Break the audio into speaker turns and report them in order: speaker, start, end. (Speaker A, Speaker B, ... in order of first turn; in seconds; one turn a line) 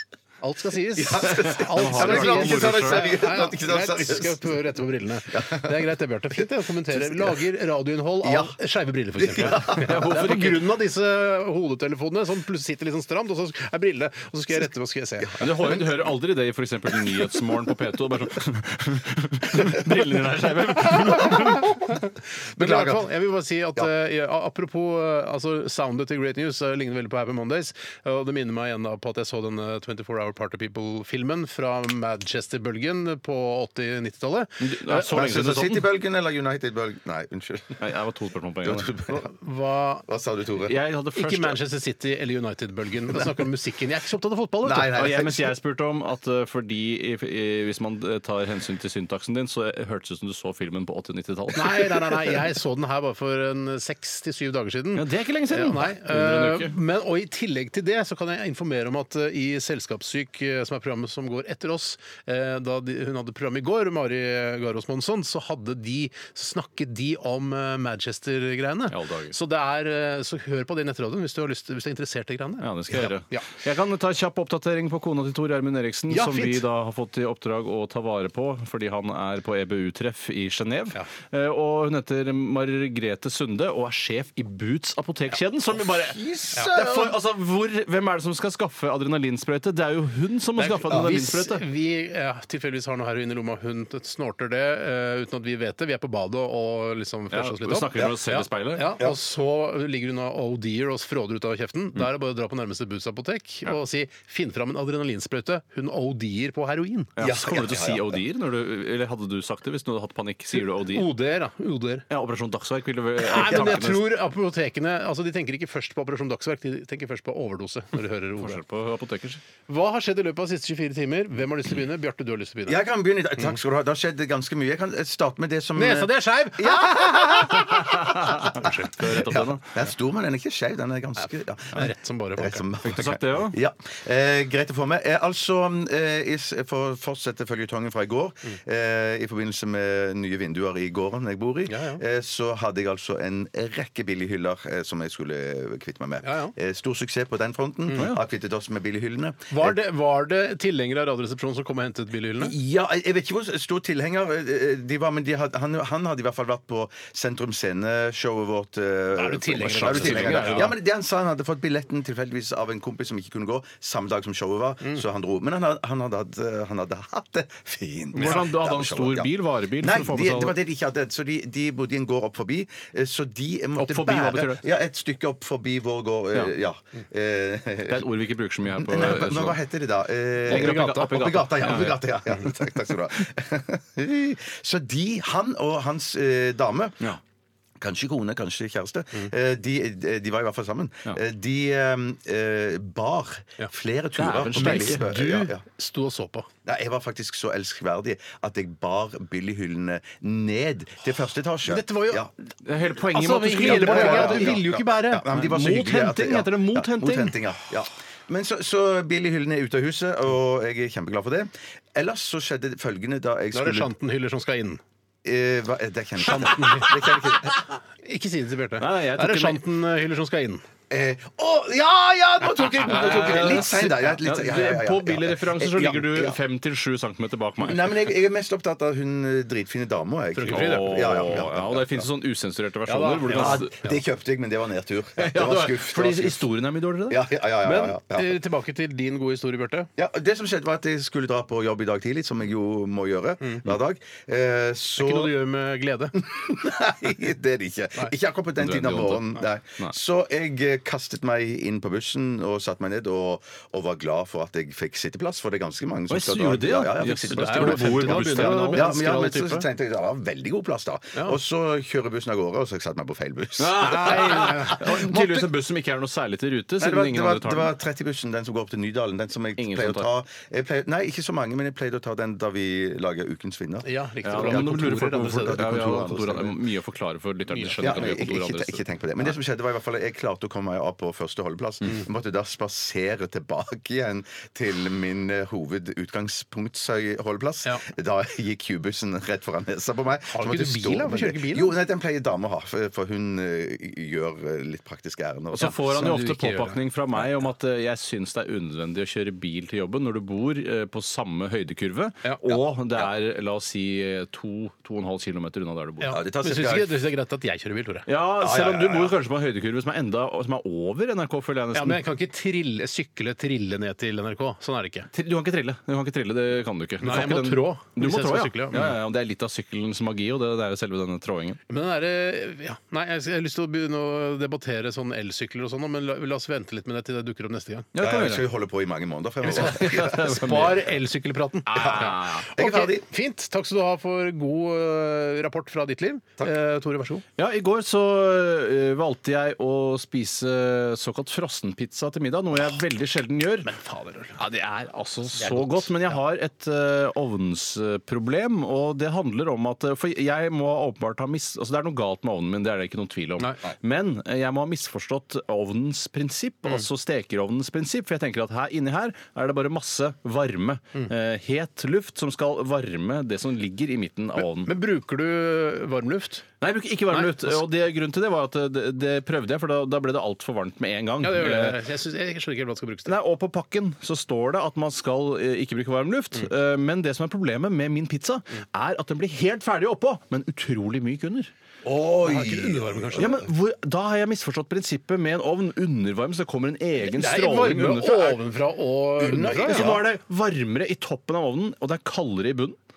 Speaker A: 0.4-15.5
Speaker B: 1.0-4.5
Speaker C: 1.4-3.2
Speaker B: 5.3-5.8
Speaker B: 6.9-7.3
Speaker B: 8.2-8.6
Speaker B: 9.2-10.0
Speaker C: 9.7-10.7
Speaker B: 15.2-15.9
Speaker C: 15.4-21.8
Speaker A: 21.2-22.0
Speaker B: 22.6-23.1
Speaker A: 22.6-35.1
Speaker C: 34.6-35.9
Speaker B: 35.1-37.9
Speaker C: 37.8-38.9
Speaker B: 38.6-39.2
Speaker A: 39.1-40.1
Speaker B: 40.1-40.8
Speaker C: 40.6-41.6
Speaker A: 41.1-45.0
Speaker B: 44.6-45.5
Speaker C: 44.9-52.4
Speaker A: 51.5-73.5
Speaker C: 55.0-56.8
Speaker C: 68.9-69.3
Speaker C: 72.6-91.6
Speaker A: 76.1-76.6
Speaker B: 85.8-87.2
Speaker A: 90.6-107.1
Speaker C: 97.3-99.0
Speaker C: 107.2-111.1
Speaker B: 107.2-108.2
Speaker A: 110.6-112.0
Speaker C: 112.1-114.1
Speaker A: 113.2-118.6
Speaker C: 118.4-119.4
Speaker A: 119.7-122.8
Speaker B: 122.7-149.8
Speaker A: 125.8-128.9
Speaker C: 128.1-129.8
Speaker A: 131.2-132.7
Speaker C: 132.8-133.6
Speaker A: 141.7-142.0
Speaker A: 146.2-146.5
Speaker A: 149.5-152.5
Speaker B: 152.4-178.1
Speaker A: 159.2-160.7
Speaker C: 159.6-160.7
Speaker A: 168.1-168.4
Speaker C: 168.2-170.6
Speaker C: 173.8-174.6
Speaker C: 177.9-179.6
Speaker B: 178.8-187.1
Speaker C: 180.4-182.1
Speaker A: 180.5-181.9
Speaker B: 187.8-195.6
Speaker C: 194.2-195.1
Speaker A: 194.5-196.5
Speaker B: 196.7-202.3
Speaker A: 201.7-202.3
Speaker C: 202.7-204.7
Speaker A: 203.1-205.2
Speaker B: 203.5-213.9
Speaker C: 205.3-207.4
Speaker A: 213.5-214.8
Speaker B: 215.2-217.6
Speaker A: 216.2-217.0
Speaker A: 218.0-220.6
Speaker C: 218.8-219.6
Speaker B: 220.9-226.4
Speaker C: 222.9-228.0
Speaker A: 223.0-223.6
Speaker B: 227.6-232.1
Speaker A: 230.3-231.2
Speaker C: 230.5-233.7
Speaker A: 232.9-234.0
Speaker B: 233.3-236.4
Speaker C: 235.2-237.2
Speaker B: 237.1-238.4
Speaker A: 237.6-239.9
Speaker B: 240.0-245.4
Speaker A: 245.0-246.2
Speaker B: 246.2-265.5
Speaker C: 248.6-249.9
Speaker C: 256.1-258.9
Speaker A: 257.3-259.7
Speaker C: 263.6-267.7
Speaker A: 263.8-264.8
Speaker B: 266.8-276.6
Speaker C: 269.6-270.1
Speaker A: 273.8-276.2
Speaker C: 274.2-278.8
Speaker A: 277.5-277.8
Speaker B: 277.8-295.8
Speaker A: 290.3-291.7
Speaker C: 295.5-306.2
Speaker A: 295.6-296.8
Speaker A: 306.0-308.1
Speaker B: 306.1-306.9
Speaker C: 308.1-312.0
Speaker B: 308.4-309.2
Speaker A: 311.7-315.1
Speaker C: 315.1-321.6
Speaker A: 317.0-318.9
Speaker A: 321.7-327.9
Speaker C: 327.9-328.5
Speaker B: 328.0-330.7
Speaker A: 329.5-337.2
Speaker C: 329.5-330.8
Speaker C: 331.7-332.5
Speaker B: 331.7-333.1
Speaker C: 337.4-343.7
Speaker A: 343.6-344.4
Speaker C: 344.4-364.7
Speaker A: 345.4-345.9
Speaker A: 364.4-366.4
Speaker C: 366.6-371.8
Speaker A: 367.1-367.6
Speaker A: 371.2-373.2
Speaker C: 373.1-381.5
Speaker B: 381.8-383.3
Speaker A: 382.2-383.4
Speaker C: 383.2-388.4
Speaker A: 387.0-389.9
Speaker B: 389.2-390.1
Speaker C: 389.7-392.8